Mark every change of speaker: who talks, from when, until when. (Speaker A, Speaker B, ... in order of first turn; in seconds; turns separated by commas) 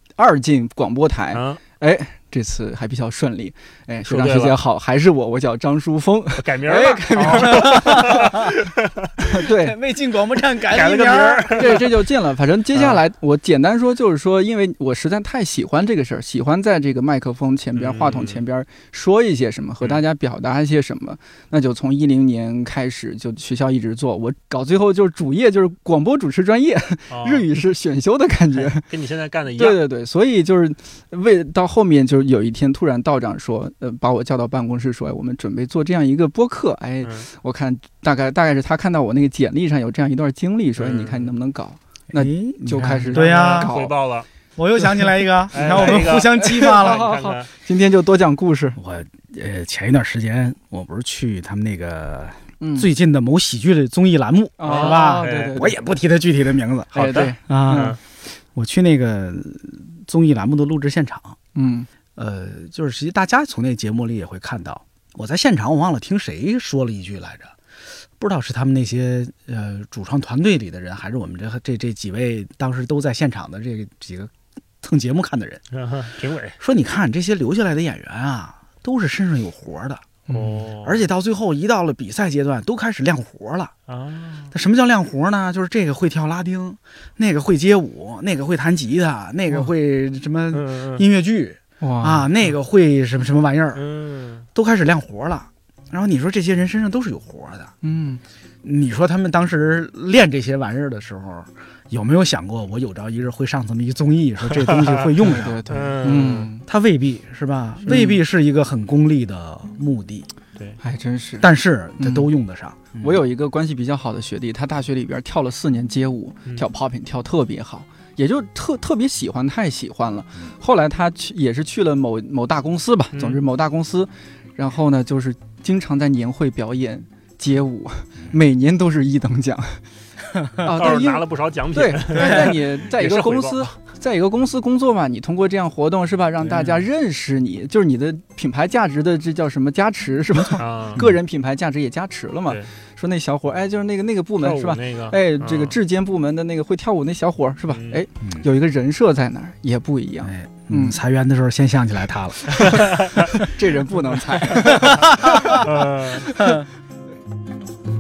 Speaker A: 0.2-8.4, Speaker B: 1.3-1.6, Speaker B: 4.1-4.6, Speaker B: 6.4-9.1, Speaker C: 7.3-8.5, Speaker A: 9.2-9.8, Speaker C: 9.4-11.8, Speaker B: 10.7-11.9, Speaker A: 11.5-28.9, Speaker B: 12.7-13.0, Speaker B: 17.8-18.4, Speaker B: 27.1-27.5, Speaker B: 28.5-29.8, Speaker A: 29.6-44.0, Speaker B: 40.8-41.3, Speaker C: 42.1-43.8, Speaker B: 43.1-44.3, Speaker C: 44.6-47.1, Speaker B: 45.5-47.5, Speaker A: 45.5-48.8, Speaker C: 48.8-61.4, Speaker A: 52.6-52.9, Speaker A: 54.6-55.8, Speaker B: 54.6-55.6, Speaker A: 56.9-58.0, Speaker B: 57.0-58.0, Speaker A: 61.5-61.9, Speaker C: 62.2-67.5, Speaker C: 68.2-75.6, Speaker B: 75.7-76.6, Speaker C: 76.6-80.2, Speaker A: 80.3-80.6, Speaker B: 80.3-81.1, Speaker C: 80.8-83.7, Speaker B: 83.9-84.5, Speaker C: 84.5-93.8, Speaker B: 90.5-91.0, Speaker A: 91.8-92.3, Speaker B: 93.8-94.5, Speaker C: 94.5-97.7, Speaker A: 97.8-98.2, Speaker C: 98.6-105.6, Speaker B: 104.5-106.5, Speaker A: 105.2-106.7, Speaker C: 106.7-110.3, Speaker A: 107.9-108.2, Speaker A: 110.8-112.3, Speaker C: 111.4-113.2, Speaker A: 113.0-129.9, Speaker B: 123.1-123.4, Speaker C: 130.4-130.7, Speaker A: 130.6-151.0, Speaker B: 130.7-133.7, Speaker C: 132.2-132.5, Speaker C: 136.4-136.7, Speaker B: 140.6-141.1, Speaker B: 144.4-145.8, Speaker B: 147.7-148.0, Speaker C: 150.2-153.0, Speaker B: 152.8-153.1, Speaker A: 153.3-156.7, Speaker C: 154.6-155.6, Speaker B: 155.4-156.3